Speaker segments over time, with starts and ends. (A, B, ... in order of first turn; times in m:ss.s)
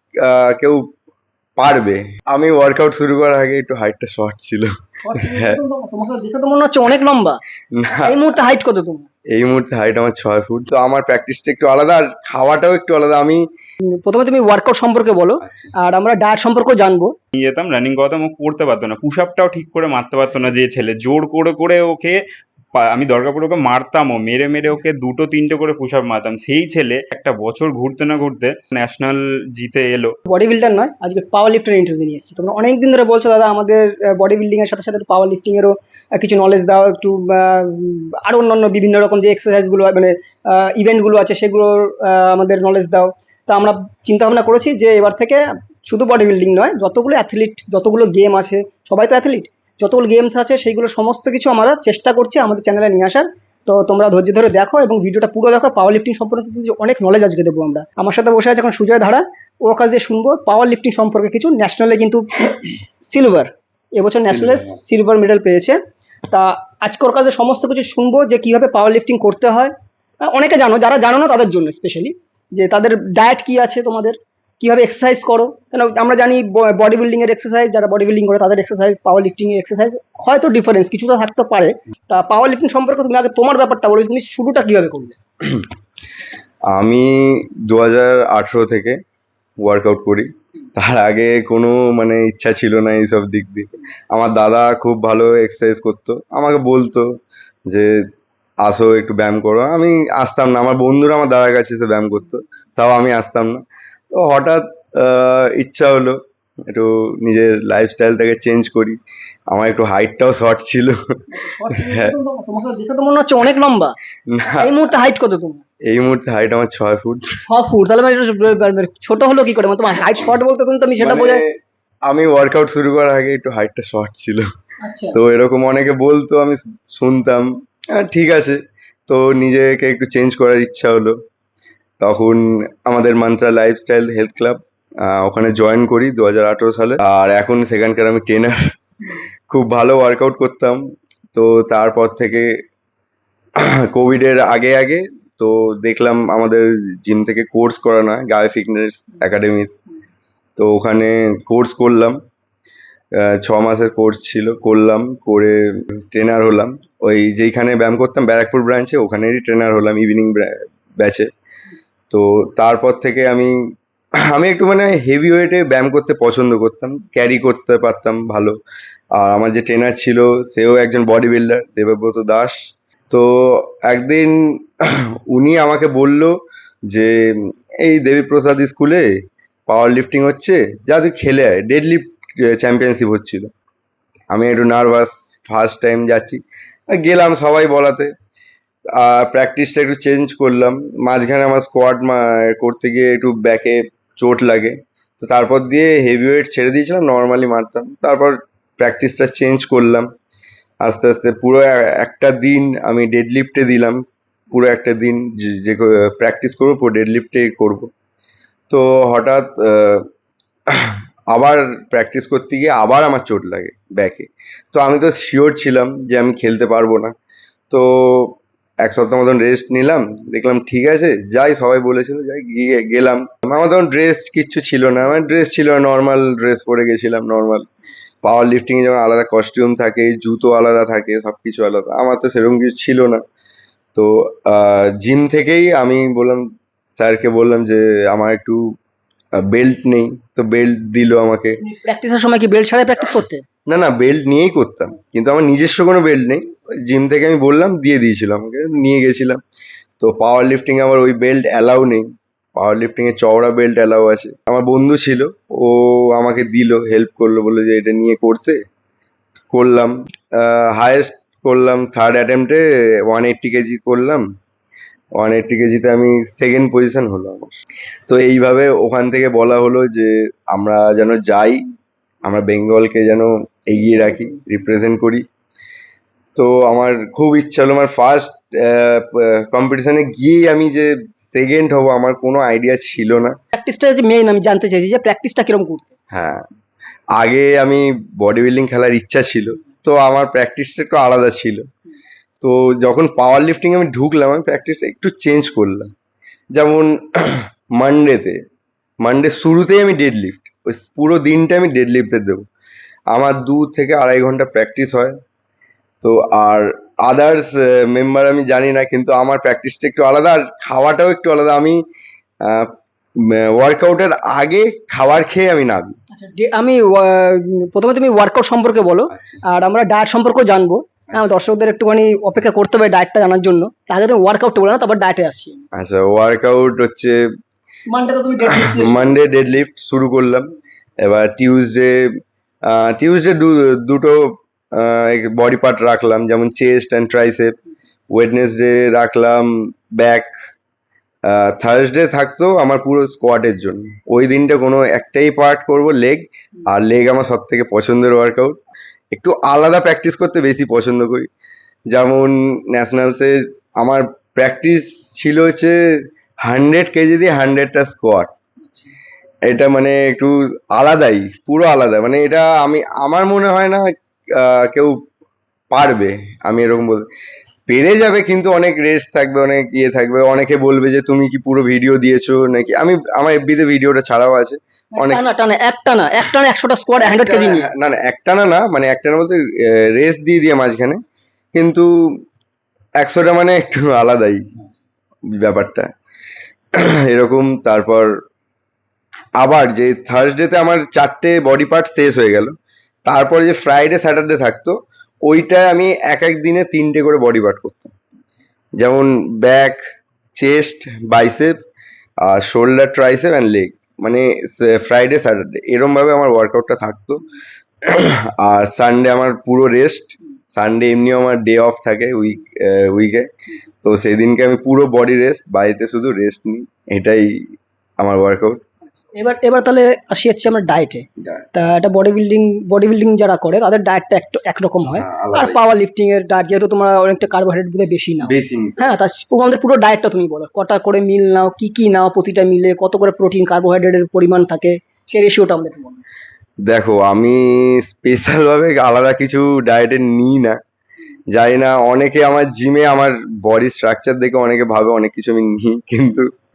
0:00.2-0:00.8 A
0:01.6-0:04.7 A
0:05.0-0:07.4 B
0:07.8-0:08.4 A
0:08.0-0:09.1 B
0:09.4-0:13.4 A
0:14.0-0:17.1 B
0:15.4-0:15.7 A
0:17.3-0:22.2 C
0:22.8-0:30.1 C
0:30.3-1:05.8 B
1:04.3-1:04.7 A
1:06.3-1:09.7 B
1:10.2-1:25.2 B
1:26.7-1:29.0 A
1:29.6-1:37.1 A
1:38.6-1:46.2 A
1:46.7-1:49.0 A
1:49.5-1:51.0 A
1:51.3-1:55.6 B
1:51.8-1:52.1 A
1:54.3-1:54.6 A
1:55.9-1:57.2 A
1:57.5-2:01.4 B
2:01.0-2:01.5 A
2:02.1-2:04.5 A
2:04.8-2:05.2 B
2:05.2-2:11.2 A
2:12.0-2:18.6 A
2:19.5-2:20.8 A
2:21.3-2:22.5 A
2:23.9-2:29.7 A
2:30.6-2:32.2 A
2:33.2-2:41.3 A
2:42.1-2:43.6 A
2:44.3-2:48.6 A
2:49.2-2:52.6 A
2:53.1-2:54.3 A
2:55.3-2:56.3 A
2:56.9-2:57.2 A
2:57.8-2:59.1 A
2:59.7-3:03.5 A
3:04.3-3:06.4 A
3:06.9-3:08.1 A
3:09.0-3:20.1 A
3:20.9-3:27.9 A
3:28.7-3:30.0 A
3:30.8-3:37.1 A
3:37.7-3:47.6 A
3:48.2-3:53.2 A
3:53.9-3:58.6 A
3:59.4-4:01.6 A
4:01.6-4:03.4 B
4:03.7-4:09.4 A
4:10.0-4:18.6 A
4:19.5-4:24.2 A
4:25.2-4:27.5 A
4:28.1-4:31.6 A
4:32.2-4:35.2 A
4:36.4-4:43.3 A
4:43.5-4:45.9 B
4:46.1-4:46.4 A
4:47.2-4:51.6 A
4:52.4-4:55.9 A
4:56.6-4:58.4 A
4:59.0-5:02.4 A
5:03.1-5:05.2 A
5:06.0-5:11.8 A
5:13.5-5:15.9 A
5:16.1-5:25.6 B
5:19.1-5:19.4 A
5:25.8-5:27.2 A
5:27.9-5:29.2 B
5:28.7-5:30.5 A
5:31.0-5:32.0 A
5:32.7-5:34.2 A
5:34.8-5:37.5 A
5:38.1-5:40.3 A
5:41.3-5:48.6 A
5:49.1-5:51.3 A
5:51.9-5:55.8 A
5:56.4-5:58.3 A
5:58.6-5:58.9 B
5:59.5-6:03.8 A
6:04.4-6:05.0 A
6:05.7-6:07.0 A
6:07.7-6:15.2 A
6:14.9-6:17.7 B
6:17.0-6:21.0 A
6:21.5-6:21.9 A
6:23.0-6:24.4 A
6:25.4-6:25.9 A
6:27.1-6:28.1 A
6:29.4-6:32.5 A
6:33.0-6:34.8 A
6:35.3-6:37.9 A
6:38.8-6:39.8 A
6:40.4-6:41.5 A
6:42.3-6:47.2 A
6:48.0-6:53.3 A
6:53.8-6:57.3 A
6:58.0-6:58.6 A
6:58.8-7:16.0 B
7:05.0-7:05.6 A
7:08.2-7:08.8 A
7:16.6-7:20.6 A
7:21.3-7:26.3 A